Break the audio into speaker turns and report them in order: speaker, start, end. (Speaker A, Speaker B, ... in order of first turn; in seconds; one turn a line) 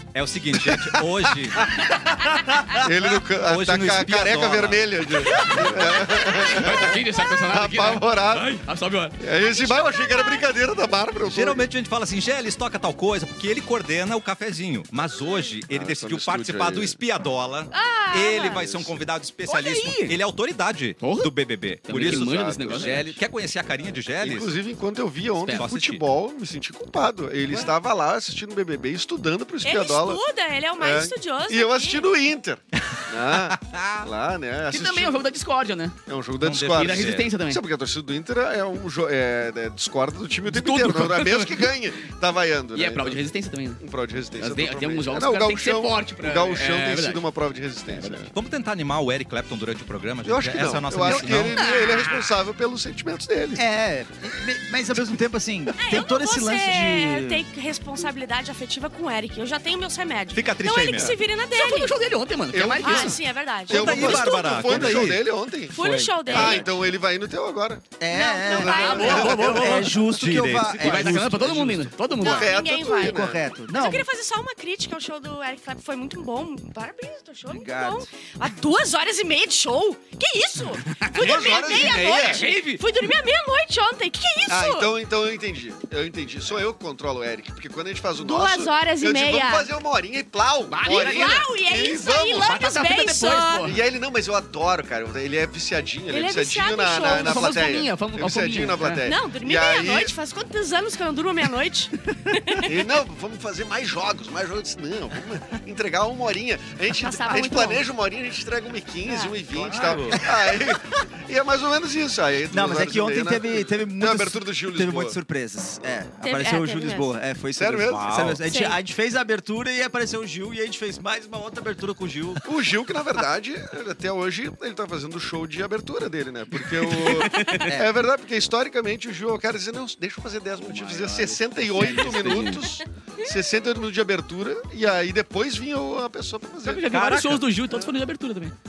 Speaker A: 0.1-1.8
Speaker B: 0.6-1.8
Speaker C: 1.9-2.5
Speaker B: 2.8-8.6
Speaker A: 3.0-5.4
Speaker C: 5.2-6.5
Speaker D: 6.4-9.2
Speaker B: 9.2-11.7
Speaker C: 9.3-10.5
Speaker A: 11.2-24.6
Speaker B: 15.7-17.0
Speaker C: 17.7-18.6
Speaker B: 18.6-18.9
Speaker D: 19.5-20.2
Speaker D: 21.0-21.3
Speaker D: 21.8-23.2
Speaker B: 22.0-23.2
Speaker B: 24.2-30.2
Speaker D: 25.3-25.7
Speaker A: 25.6-26.1
Speaker C: 29.6-32.1
Speaker B: 30.8-35.2
Speaker A: 32.9-33.9
Speaker D: 34.7-36.0
Speaker B: 36.1-43.2
Speaker A: 36.4-37.3
Speaker D: 36.7-37.6
Speaker D: 40.5-41.8
Speaker D: 42.7-43.8
Speaker B: 43.8-48.3
Speaker D: 44.4-47.2
Speaker D: 47.9-48.3
Speaker A: 48.3-51.6
Speaker B: 50.2-53.6
Speaker E: 51.1-51.4
Speaker D: 51.6-52.4
Speaker E: 53.5-57.4
Speaker C: 55.8-62.0
Speaker A: 60.4-61.2
Speaker D: 61.5-63.2
Speaker B: 62.5-69.9
Speaker C: 62.8-65.0
Speaker A: 63.7-65.2
Speaker C: 65.7-66.8
Speaker D: 65.9-66.7
Speaker E: 68.0-71.9
Speaker C: 68.1-69.5
Speaker D: 68.7-70.0
Speaker A: 70.0-71.2
Speaker D: 70.7-72.5
Speaker B: 72.2-73.4
Speaker C: 72.2-84.9
Speaker E: 73.0-74.1
Speaker E: 77.5-78.1
Speaker D: 80.8-82.9
Speaker B: 81.1-82.5
Speaker B: 84.5-92.5
Speaker C: 88.2-89.7
Speaker D: 90.7-91.5
Speaker C: 90.9-93.8
Speaker D: 92.3-93.8
Speaker B: 93.6-100.1
Speaker C: 96.1-97.7
Speaker D: 97.0-99.0
Speaker C: 99.0-102.8
Speaker B: 102.6-115.2
Speaker C: 106.9-107.8
Speaker C: 109.0-109.4
Speaker A: 109.5-110.2
Speaker E: 110.5-110.8
Speaker E: 112.5-122.4
Speaker C: 116.2-117.1
Speaker B: 117.6-118.3
Speaker A: 117.9-118.4
Speaker C: 118.4-118.8
Speaker B: 122.4-136.9
Speaker D: 126.9-127.8
Speaker E: 127.6-127.9
Speaker D: 130.6-132.7
Speaker D: 136.6-138.6
Speaker A: 136.9-137.4